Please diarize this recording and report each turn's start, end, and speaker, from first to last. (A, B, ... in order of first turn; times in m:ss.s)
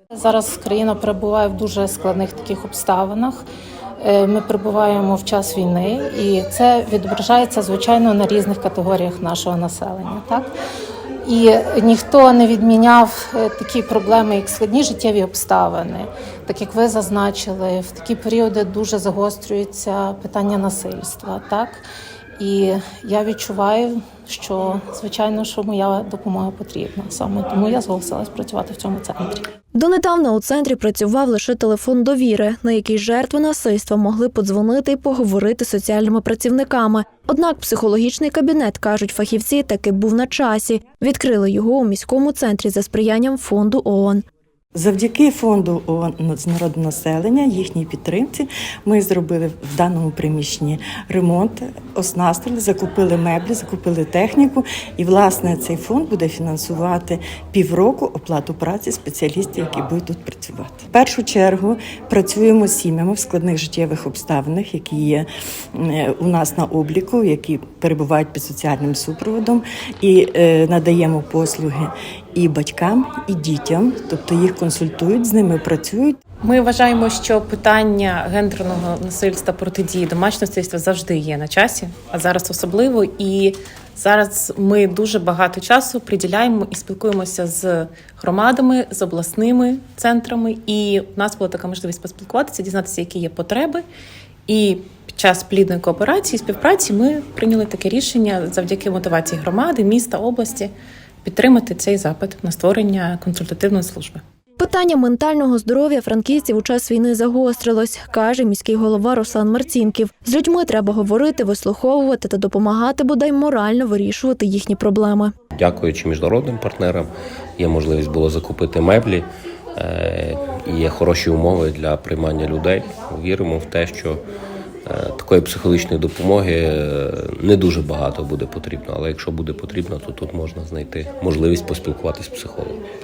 0:00.1-0:03.4 A
0:04.0-0:10.5 A
0:11.2-0:21.8 A
0:22.4-0:29.4 A
0:29.7-0:44.2 B
0:44.7-1:16.2 C
1:16.4-1:33.8 D
1:34.5-1:40.7 D
1:41.2-1:44.2 D
1:44.6-1:55.3 B
1:55.5-2:04.2 E
2:04.8-2:12.8 E